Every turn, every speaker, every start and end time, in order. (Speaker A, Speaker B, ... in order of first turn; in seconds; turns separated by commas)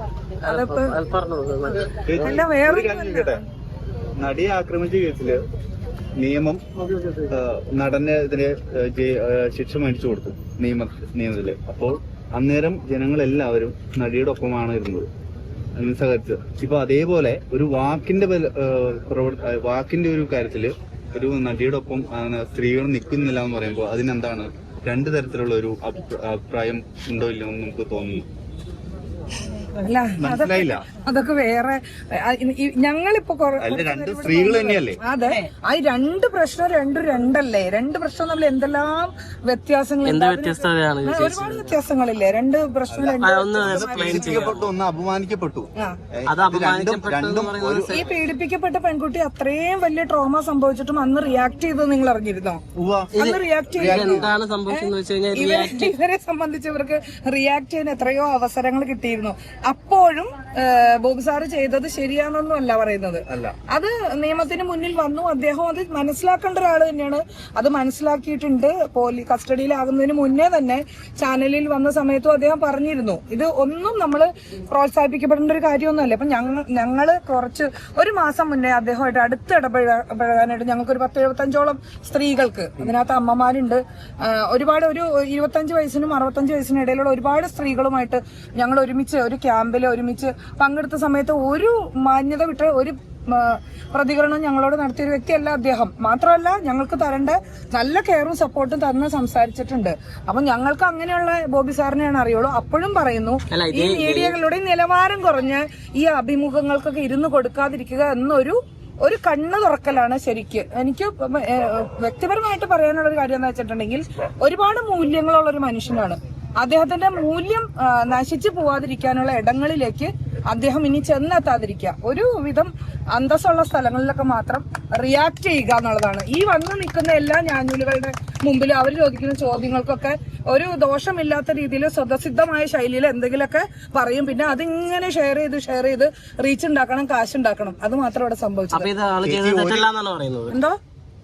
Speaker A: 0.4-2.4, Speaker B: 0.5-1.0, Speaker C: 2.0-3.4, Speaker B: 2.2-3.4, Speaker C: 4.2-5.4, Speaker C: 6.2-6.6, Speaker A: 6.9-7.3, Speaker C: 7.3-15.1, Speaker C: 15.8-28.2, Speaker B: 29.8-44.5, Speaker C: 30.2-30.9, Speaker C: 33.6-35.0, Speaker A: 40.0-41.8, Speaker C: 42.9-48.0, Speaker A: 43.2-44.7, Speaker A: 46.3-48.1, Speaker B: 47.9-52.6, Speaker C: 52.8-53.2, Speaker A: 53.2-55.9, Speaker B: 53.2-138.9, Speaker C: 53.8-54.3, Speaker C: 63.3-63.6, Speaker A: 103.5-104.4, Speaker A: 138.7-140.6, Speaker C: 139.2-139.9, Speaker B: 140.5-140.8